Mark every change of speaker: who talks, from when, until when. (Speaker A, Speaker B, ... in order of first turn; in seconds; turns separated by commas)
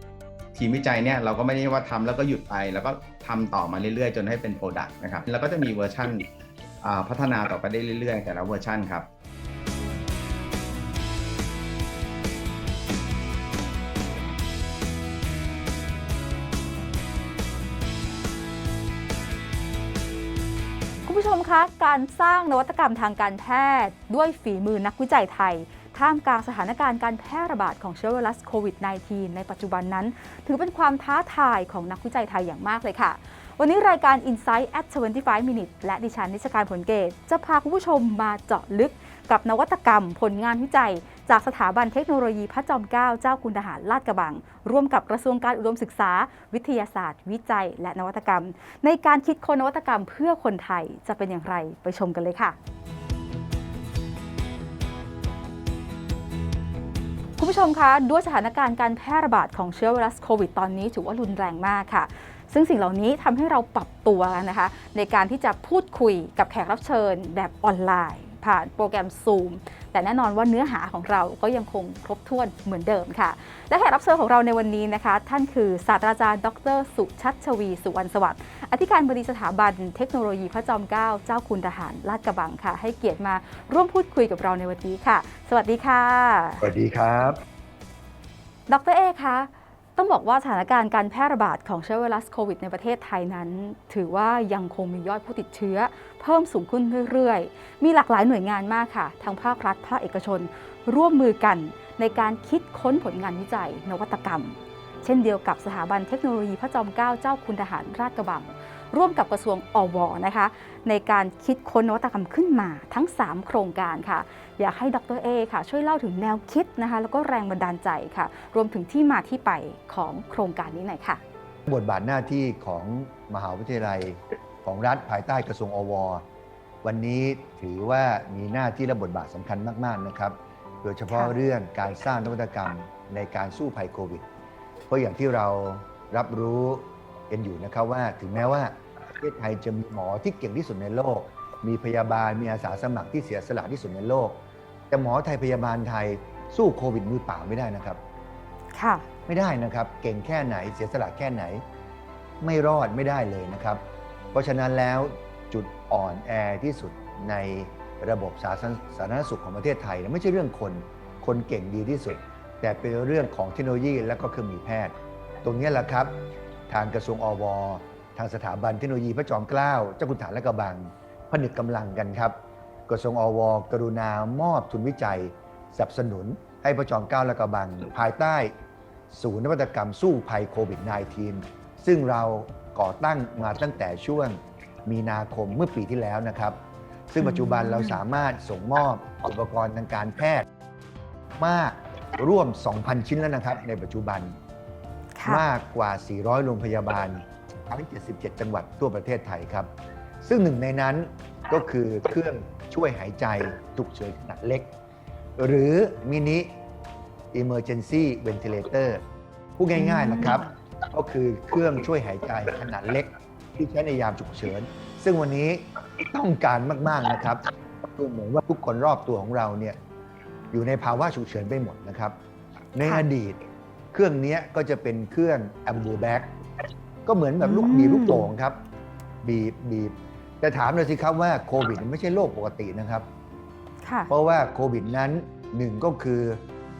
Speaker A: 0.5-6.3, Speaker A: 6.8-9.1, Speaker B: 21.0-52.5, Speaker B: 57.4-86.6, Speaker C: 86.6-87.4, Speaker B: 88.7-121.2, Speaker C: 121.7-126.2, Speaker C: 126.8-134.2, Speaker B: 131.1-131.3, Speaker C: 134.9-148.0, Speaker B: 148.7-149.1, Speaker C: 149.3-151.6, Speaker C: 152.4-153.8, Speaker C: 154.3-166.2, Speaker C: 166.7-172.3, Speaker C: 172.9-178.5, Speaker C: 179.1-186.6, Speaker C: 187.1-190.4, Speaker B: 187.2-188.0, Speaker C: 191.4-194.3, Speaker B: 195.2-195.4, Speaker C: 195.2-199.7, Speaker C: 200.2-204.7, Speaker C: 205.4-206.5, Speaker C: 207.3-209.0, Speaker C: 209.6-219.8, Speaker B: 209.7-210.5, Speaker C: 220.5-222.2, Speaker C: 222.7-226.3, Speaker C: 227.1-228.6, Speaker B: 227.4-228.3, Speaker C: 229.2-233.1, Speaker B: 233.8-234.1, Speaker C: 234.1-236.4